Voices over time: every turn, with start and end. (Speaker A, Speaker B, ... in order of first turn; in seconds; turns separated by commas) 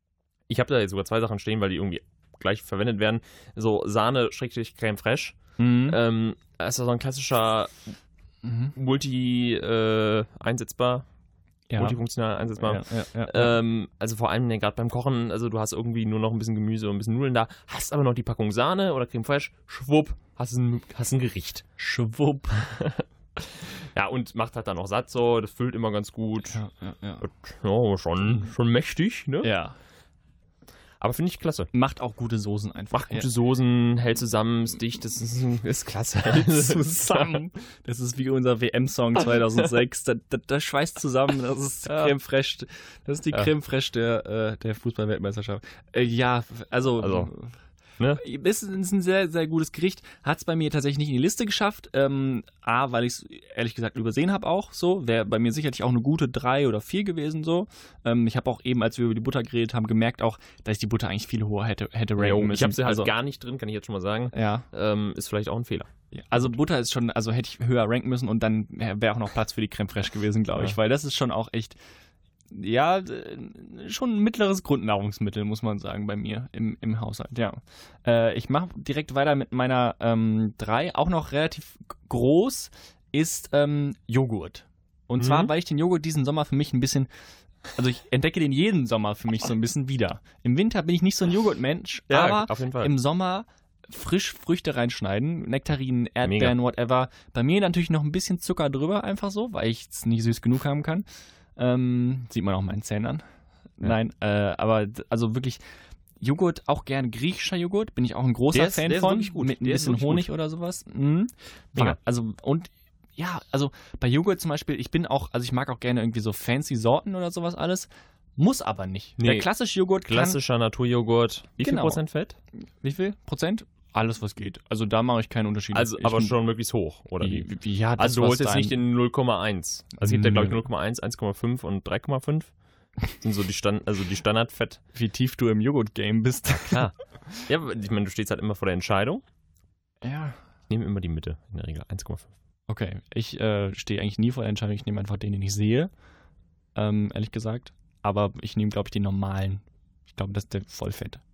Speaker A: 0.5-7.8, Speaker B: 5.6-6.0, Speaker B: 8.4-8.8, Speaker A: 8.8-11.0, Speaker B: 11.7-12.0, Speaker A: 11.8-21.6, Speaker B: 12.6-13.6, Speaker B: 21.8-22.7, Speaker A: 22.6-26.6, Speaker B: 26.5-27.2, Speaker A: 27.2-29.5, Speaker B: 29.4-29.7, Speaker A: 31.0-31.7, Speaker B: 31.7-33.3, Speaker A: 32.9-37.4, Speaker B: 36.2-47.5, Speaker A: 41.9-42.1, Speaker A: 47.0-47.3, Speaker B: 48.1-63.1, Speaker A: 62.2-65.9, Speaker B: 64.3-64.7, Speaker B: 66.1-71.8, Speaker B: 72.5-87.1, Speaker A: 85.2-85.5, Speaker B: 87.8-101.0, Speaker A: 92.1-92.9, Speaker A: 96.2-96.5, Speaker B: 101.6-103.2, Speaker B: 103.8-105.6, Speaker B: 106.2-120.4, Speaker A: 108.5-110.3, Speaker A: 119.2-119.5, Speaker A: 120.1-122.4, Speaker B: 121.6-122.0, Speaker B: 122.8-126.3, Speaker A: 125.7-132.5, Speaker B: 127.2-128.8, Speaker B: 130.0-130.6, Speaker A: 133.1-134.8, Speaker B: 134.9-136.9, Speaker A: 136.7-139.2, Speaker B: 140.0-140.4, Speaker A: 140.7-142.3, Speaker B: 142.7-145.9, Speaker B: 146.7-151.2